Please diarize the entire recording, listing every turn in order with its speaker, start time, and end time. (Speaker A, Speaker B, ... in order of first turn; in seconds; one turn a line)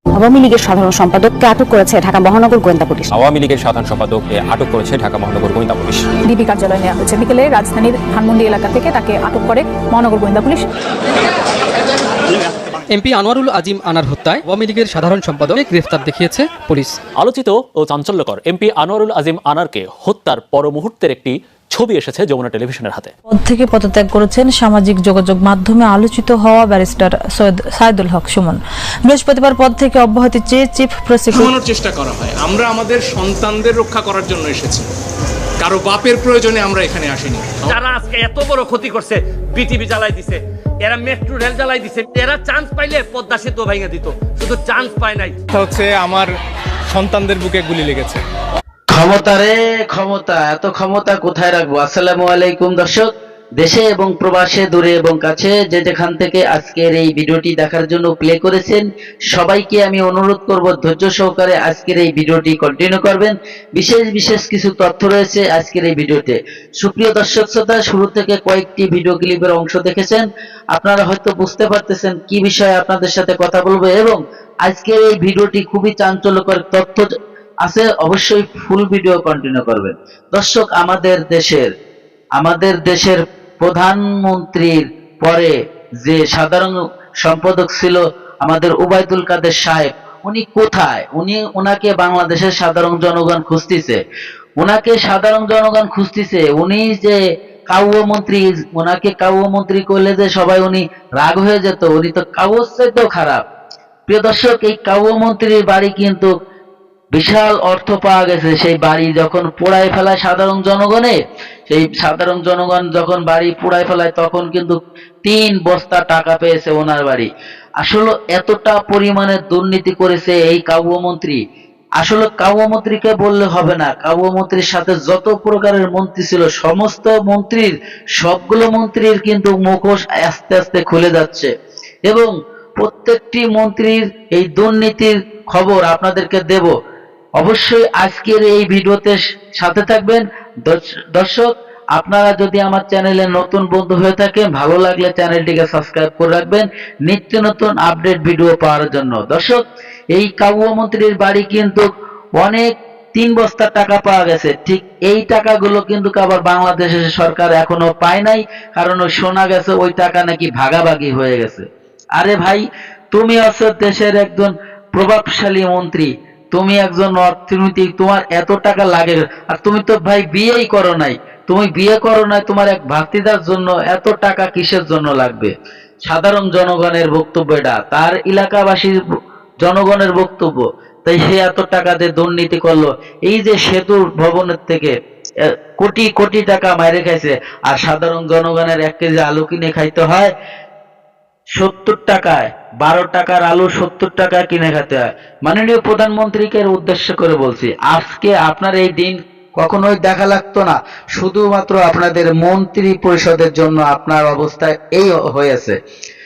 Speaker A: 0.2-3.1
Speaker B: 3.1-6.0
Speaker C: 6.3-10.7
Speaker D: 12.9-17.0
Speaker E: 17.2-23.1
Speaker F: 23.3-31.4
Speaker G: 31.4-34.9
Speaker G: 35.6-37.8
Speaker H: 37.6-45.3
Speaker G: 45.5-46.3
Speaker G: 46.9-48.2
Speaker I: 48.9-77.1
Speaker I: 77.6-81.7
Speaker I: 82.4-94.0
Speaker I: 94.6-97.2
Speaker I: 97.7-103.4
Speaker I: 104.1-106.3
Speaker I: 107.1-111.2
Speaker I: 111.7-117.3
Speaker I: 117.8-121.4
Speaker I: 122.0-131.5
Speaker I: 132.1-136.7
Speaker I: 137.4-149.6
Speaker I: 150.1-151.8
Speaker I: 152.4-161.7
Speaker I: 162.2-175.5
Speaker I: 176.1-179.0
Speaker I: 179.6-184.9
Speaker I: 185.4-190.3
Speaker I: 191.6-205.8